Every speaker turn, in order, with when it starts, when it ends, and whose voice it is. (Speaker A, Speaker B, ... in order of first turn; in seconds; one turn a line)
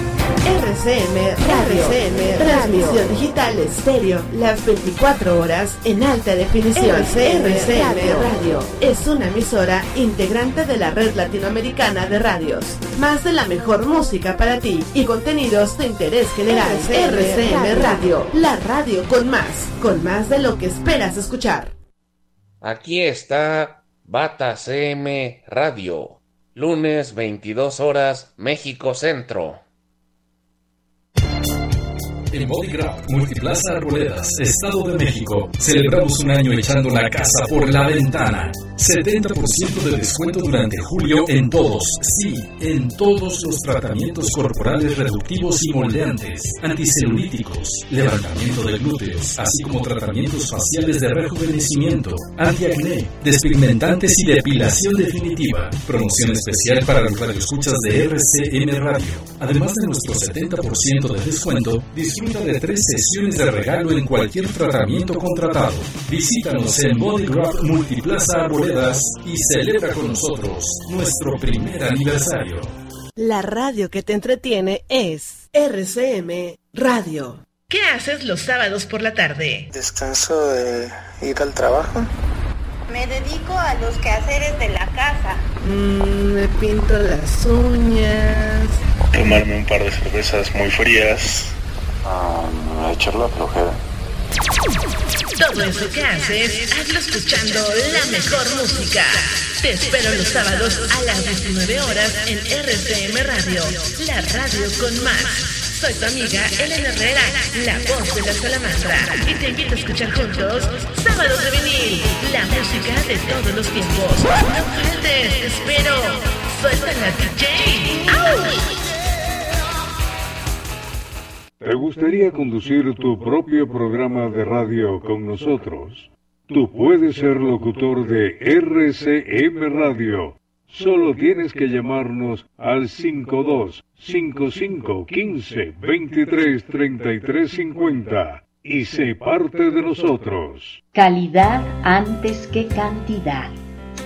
Speaker A: 0.5-21.8
Speaker B: 22.6-29.6
Speaker C: 32.3-72.8
Speaker A: 73.2-77.4
Speaker D: 77.7-79.7
Speaker E: 79.7-82.1
Speaker F: 83.0-85.3
Speaker A: 86.5-88.0
Speaker D: 95.4-118.7
Speaker G: 121.6-140.8
Speaker H: 140.9-143.6